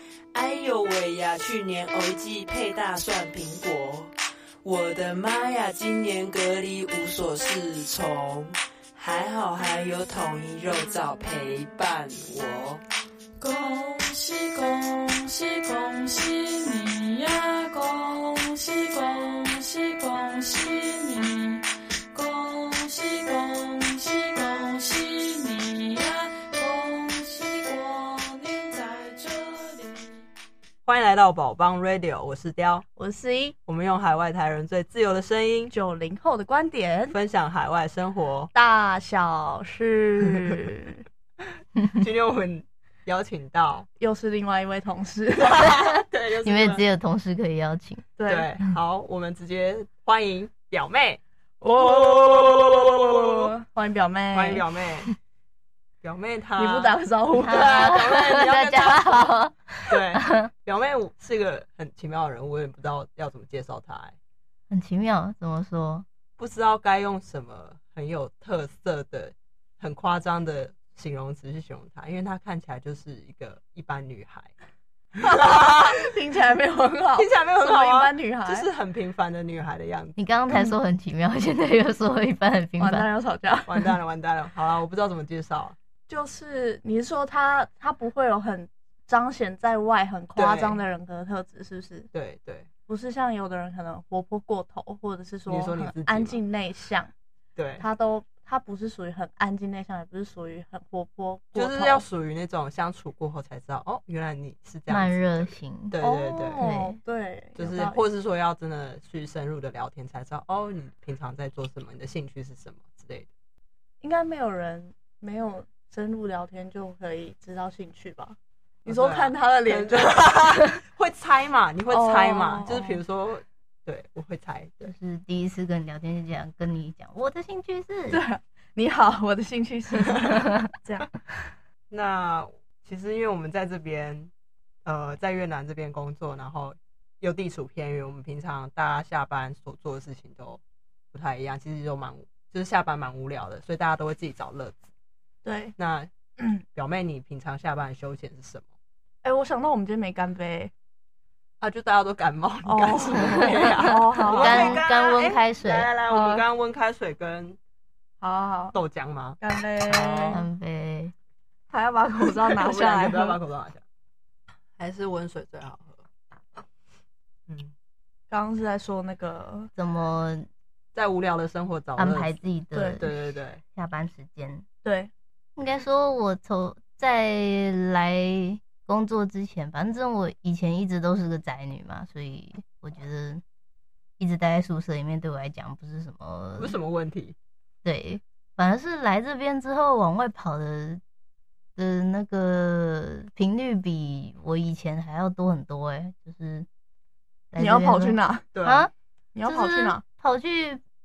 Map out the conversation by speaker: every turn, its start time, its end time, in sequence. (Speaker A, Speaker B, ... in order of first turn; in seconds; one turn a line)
Speaker A: 0.3-4.1
Speaker A: 4.6-12.8
Speaker B: 13.4-30.2
Speaker C: 30.8-32.8
Speaker D: 33.0-33.5
Speaker C: 33.7-35.7
Speaker D: 35.7-37.2
Speaker C: 37.1-38.5
Speaker D: 38.5-41.0
Speaker C: 41.9-43.9
Speaker D: 44.0-45.7
Speaker C: 45.4-46.8
Speaker E: 45.6-45.9
Speaker E: 46.4-48.0
Speaker D: 48.2-48.5
Speaker C: 48.2-51.2
Speaker D: 51.6-54.6
Speaker C: 51.7-53.5
Speaker C: 54.3-55.1
Speaker C: 56.0-59.3
Speaker D: 56.5-58.0
Speaker E: 57.4-60.5
Speaker C: 59.9-64.2
Speaker E: 64.7-66.0
Speaker C: 66.4-74.5
Speaker D: 75.2-78.7
Speaker C: 75.2-76.0
Speaker C: 77.2-80.2
Speaker E: 80.2-83.0
Speaker D: 82.8-84.0
Speaker C: 83.7-85.8
Speaker D: 86.1-92.1
Speaker C: 90.3-90.8
Speaker C: 92.1-92.7
Speaker D: 92.9-97.1
Speaker C: 95.5-96.4
Speaker C: 97.5-97.8
Speaker D: 97.8-102.0
Speaker C: 101.5-106.6
Speaker E: 104.9-106.0
Speaker D: 106.0-108.0
Speaker E: 106.6-107.0
Speaker C: 107.5-113.3
Speaker D: 114.0-120.5
Speaker C: 118.8-124.9
Speaker D: 121.9-123.0
Speaker E: 124.8-128.2
Speaker D: 128.1-131.2
Speaker C: 131.9-134.3
Speaker C: 134.8-140.6
Speaker C: 141.1-144.9
Speaker D: 145.4-145.7
Speaker C: 145.8-146.1
Speaker C: 146.7-148.7
Speaker D: 149.2-150.7
Speaker C: 151.6-157.6
Speaker D: 152.7-154.8
Speaker E: 154.3-155.9
Speaker D: 156.1-156.4
Speaker D: 158.2-158.8
Speaker C: 158.7-160.4
Speaker D: 159.4-160.4
Speaker E: 160.3-161.1
Speaker D: 161.7-163.4
Speaker C: 162.5-163.8
Speaker C: 164.8-166.0
Speaker C: 167.5-167.7
Speaker D: 168.3-169.7
Speaker E: 169.8-170.5
Speaker C: 170.9-172.4
Speaker E: 171.9-173.1
Speaker D: 172.7-173.1
Speaker C: 173.0-173.6
Speaker E: 173.6-174.6
Speaker D: 174.8-175.1
Speaker E: 175.6-183.4
Speaker E: 184.2-186.7
Speaker C: 186.6-187.3
Speaker E: 187.8-191.0
Speaker E: 191.8-196.7
Speaker E: 197.5-198.9
Speaker D: 197.6-198.5
Speaker C: 198.5-198.9
Speaker D: 199.3-200.0
Speaker E: 199.4-200.8